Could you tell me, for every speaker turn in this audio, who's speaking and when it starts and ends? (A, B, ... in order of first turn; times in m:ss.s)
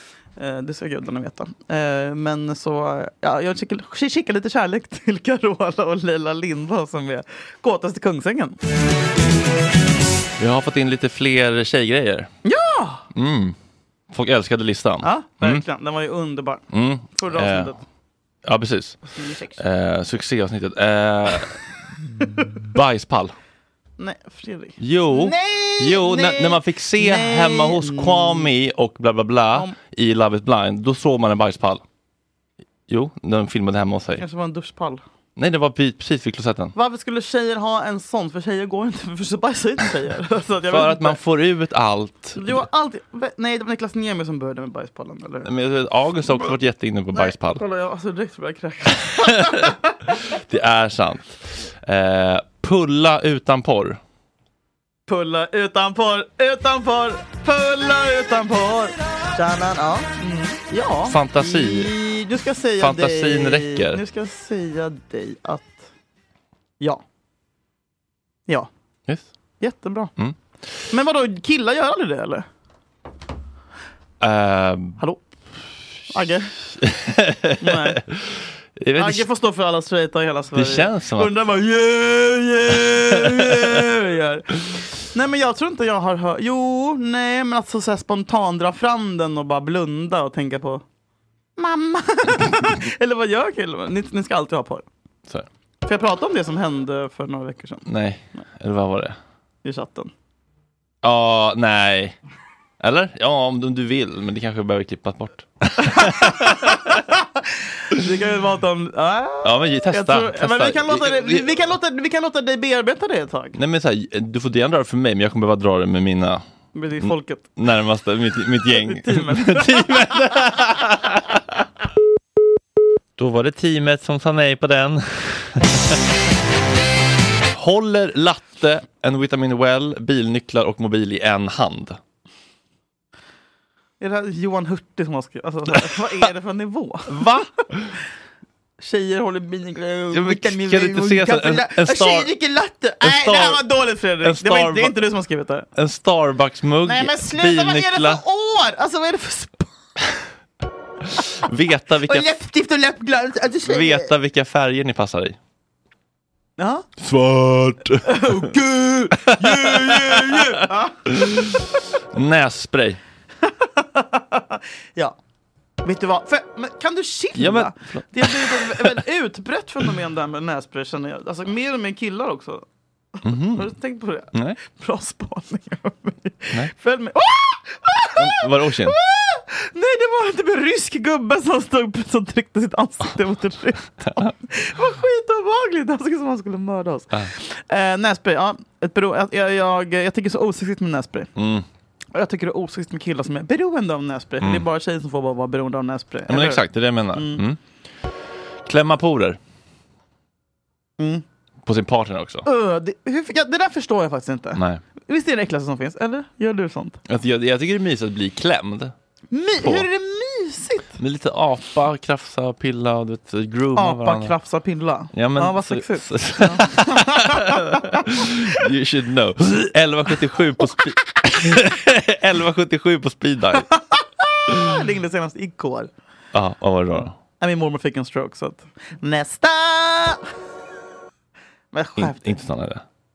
0:00.4-0:08.6 A
0:10.4-0:12.3 B
0:12.4-0:13.0 A
0:13.2-0:13.6 B
0:14.1-0:15.6 B
0:15.0-0:16.6 A
0:16.7-0:17.7 B
0:17.2-0:17.8 A
0:18.4-0:19.0 B
0:19.1-0:19.6 A
0:19.6-0:21.6 B
0:22.7-0:23.3 B
0:24.0-0:28.5 A
0:24.8-0:31.8 B
0:32.9-0:34.2 B
0:34.2-0:35.0 A
0:35.4-0:36.7 B
0:36.8-0:41.2 A
0:40.7-0:42.7 B
0:42.4-0:45.5 A
0:45.4-0:47.6 B
0:47.1-0:49.9 A
0:50.4-0:54.0 B
0:55.1-1:05.9 A
1:01.1-1:01.9 B
1:02.8-1:04.0 B
1:09.6-1:10.1 A
1:10.9-1:12.5 A
1:14.2-1:15.0 B
1:15.0-1:15.2 A
1:16.1-1:16.5 A
1:16.8-1:19.3 B
1:17.6-1:18.0 A
1:19.0-1:30.8 A
1:20.6-1:21.4 B
1:31.6-1:34.9 A
1:35.9-1:37.9 A
1:37.9-1:39.2 B
1:39.6-1:40.1 A
1:41.0-1:42.2 B
1:42.8-1:46.9 B
1:45.8-1:53.6 A
1:49.4-1:51.6 B
1:53.6-1:56.4 B
1:56.8-1:57.5 A
1:57.0-2:01.4 B
1:58.8-2:00.1 A
2:03.2-2:06.0 B
2:07.5-2:12.0 B
2:14.0-2:17.4 A
2:17.1-2:17.8 B
2:18.8-2:25.7 A
2:20.1-2:22.3 B
2:23.0-2:23.6 B
2:24.2-2:25.0 B
2:25.8-2:28.2 B
2:26.8-2:29.7 A
2:31.2-2:32.3 B
2:32.1-2:34.1 A
2:33.7-2:35.4 B
2:36.6-2:36.9 A
2:37.0-2:38.4 B
2:38.0-2:41.0 A
2:39.2-2:43.0 B
2:43.5-2:45.2 A
2:45.8-2:52.6 A
2:47.4-2:49.0 B
2:53.2-3:11.3 A
2:53.2-2:53.7 B
2:54.3-2:54.6 B
2:58.2-2:59.0 B
3:11.4-3:11.6 B
3:12.1-3:17.4 A
3:16.3-3:17.6 B
3:18.7-3:19.4 B
3:21.0-3:21.2 A
3:21.6-3:22.4 B
3:22.4-3:27.0 A
3:24.6-3:24.8 B
3:27.1-3:28.9 B
3:29.3-3:31.0 A
3:29.6-3:29.9 B
3:31.0-3:34.3 B
3:33.8-3:38.2 A
3:35.1-3:43.7 B
3:43.9-3:45.9 A
3:46.3-3:47.2 B
3:47.4-3:50.2 A
3:51.7-3:52.4 A
3:52.0-3:52.8 B